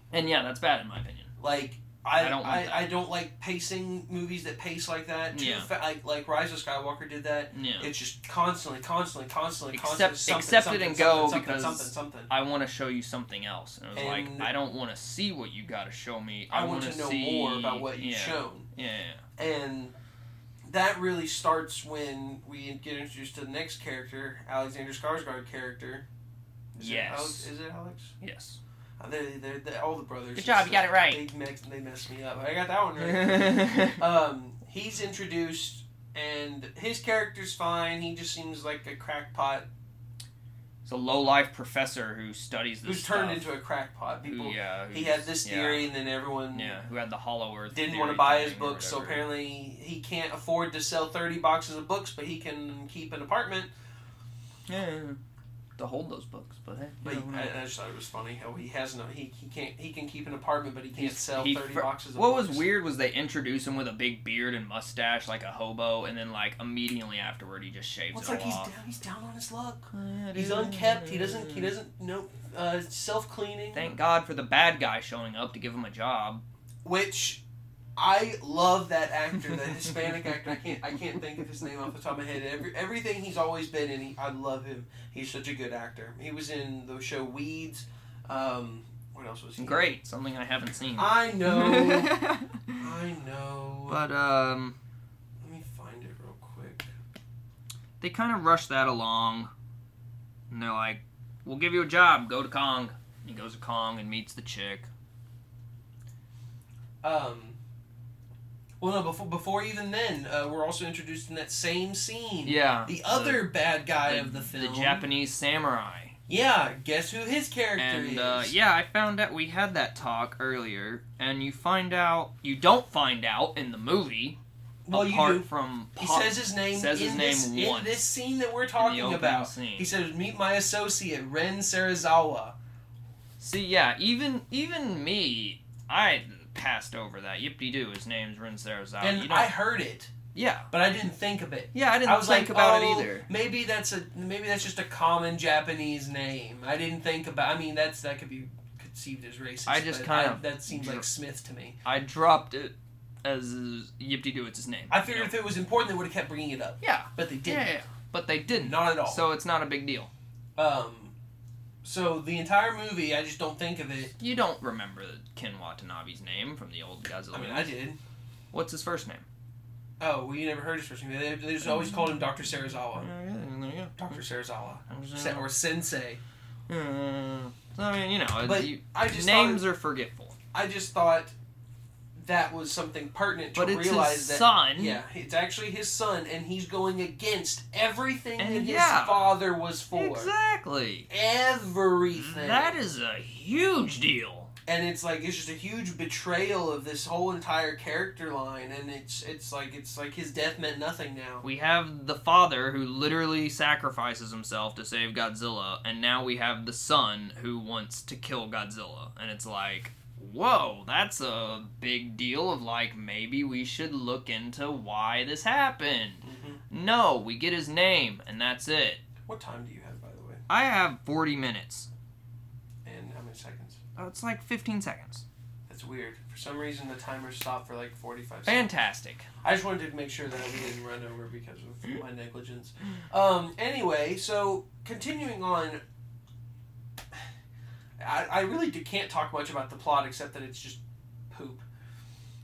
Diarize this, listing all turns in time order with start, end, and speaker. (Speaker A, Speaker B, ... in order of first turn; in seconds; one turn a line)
Speaker A: 0.1-1.3
Speaker B: 1.4-12.3
Speaker A: 2.2-2.9
Speaker A: 5.3-5.7
Speaker A: 7.5-7.9
Speaker A: 9.7-19.2
Speaker B: 13.9-14.5
Speaker B: 16.5-18.7
Speaker B: 19.4-19.9
Speaker B: 20.7-26.1
Speaker B: 26.7-28.1
Speaker A: 26.8-27.5
Speaker A: 28.2-28.6
Speaker B: 29.0-39.7
Speaker A: 30.4-31.2
Speaker A: 33.0-34.0
Speaker A: 40.9-43.5
Speaker B: 42.8-46.8
Speaker A: 44.2-45.9
Speaker A: 46.5-49.3
Speaker B: 47.7-53.7
Speaker A: 54.7-55.2
Speaker A: 55.8-57.5
Speaker B: 57.0-62.7
Speaker A: 61.0-68.7
Speaker B: 68.1-73.9
Speaker A: 69.9-71.7
Speaker A: 73.7-76.4
Speaker B: 76.8-77.4
Speaker B: 78.0-89.9
Speaker A: 79.7-80.3
Speaker A: 89.6-92.9
Speaker B: 91.0-92.2
Speaker B: 92.8-94.0
Speaker A: 93.9-94.8
Speaker B: 95.4-96.9
Speaker A: 98.0-99.5
Speaker A: 100.5-104.9
Speaker B: 107.0-107.6
Speaker B: 108.8-115.1
Speaker A: 112.5-113.5
Speaker A: 114.0-116.2
Speaker B: 116.3-118.5
Speaker A: 117.8-124.4
Speaker B: 124.9-132.6
Speaker A: 124.9-128.0
Speaker A: 128.8-129.9
Speaker A: 133.4-139.5
Speaker B: 139.0-140.1
Speaker A: 140.3-140.7
Speaker B: 140.7-151.8
Speaker A: 141.7-143.3
Speaker A: 149.7-151.1
Speaker A: 151.8-155.3
Speaker B: 154.9-157.7
Speaker A: 156.8-160.1
Speaker B: 158.6-159.2
Speaker B: 160.6-161.1
Speaker B: 161.8-164.1
Speaker A: 164.2-167.7
Speaker B: 167.3-168.0
Speaker A: 168.5-169.2
Speaker B: 170.0-173.1
Speaker A: 171.6-172.3
Speaker A: 172.9-174.2
Speaker B: 174.0-176.2
Speaker A: 174.9-175.5
Speaker A: 176.7-180.4
Speaker B: 178.4-179.6
Speaker B: 180.5-181.3
Speaker B: 182.2-190.3
Speaker A: 183.6-185.0
Speaker A: 188.4-189.3
Speaker A: 189.9-191.1
Speaker B: 191.1-192.8
Speaker A: 192.1-194.5
Speaker B: 194.7-201.4
Speaker A: 201.4-219.0
Speaker B: 216.2-216.6
Speaker B: 219.3-220.4
Speaker A: 220.5-221.9
Speaker B: 222.8-223.8
Speaker A: 224.0-225.2
Speaker B: 225.7-228.7
Speaker A: 228.5-229.3
Speaker B: 229.4-235.8
Speaker B: 238.0-241.7